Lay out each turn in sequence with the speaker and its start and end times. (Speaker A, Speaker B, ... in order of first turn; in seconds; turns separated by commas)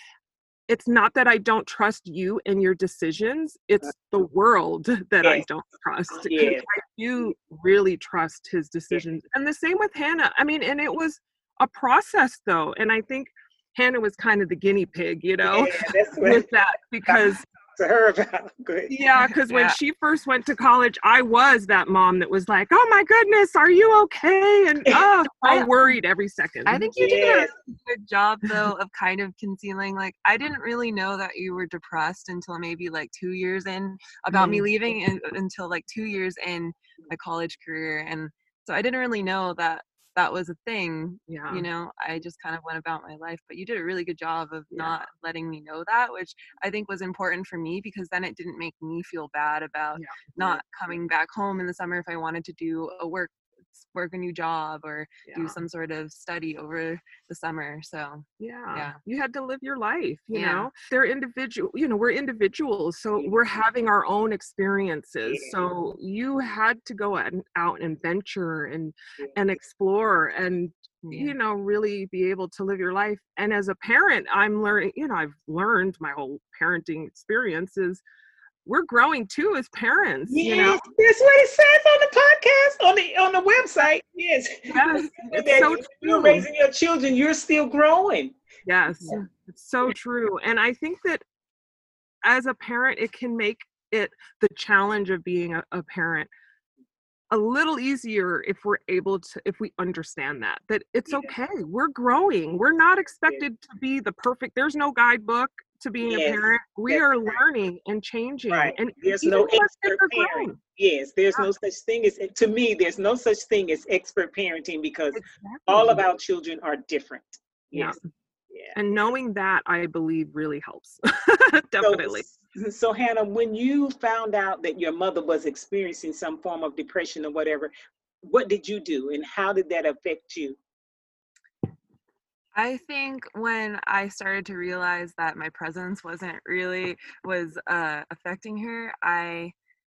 Speaker A: 0.7-17.4, Speaker B: 6.1-6.7, Speaker B: 15.4-16.5, Speaker B: 17.1-18.9, Speaker A: 18.9-26.9, Speaker C: 19.5-19.8, Speaker C: 26.7-59.0, Speaker B: 27.0-27.5, Speaker A: 34.3-34.7, Speaker A: 41.3-41.7, Speaker A: 44.7-45.0, Speaker A: 50.0-50.3, Speaker A: 55.3-55.6, Speaker A: 58.4-78.0, Speaker C: 60.3-60.7, Speaker B: 65.2-65.5, Speaker C: 71.0-71.3, Speaker A: 78.7-80.8, Speaker B: 80.3-88.4, Speaker A: 84.7-86.5, Speaker C: 84.8-85.3, Speaker A: 88.7-91.2, Speaker A: 92.2-96.3, Speaker A: 97.3-110.6, Speaker B: 103.2-103.4, Speaker B: 106.0-107.4, Speaker B: 108.5-118.0, Speaker A: 115.1-116.0, Speaker A: 117.7-118.0, Speaker B: 118.5-118.8, Speaker A: 118.8-122.2, Speaker B: 121.8-127.7, Speaker B: 128.3-130.6, Speaker C: 132.6-139.5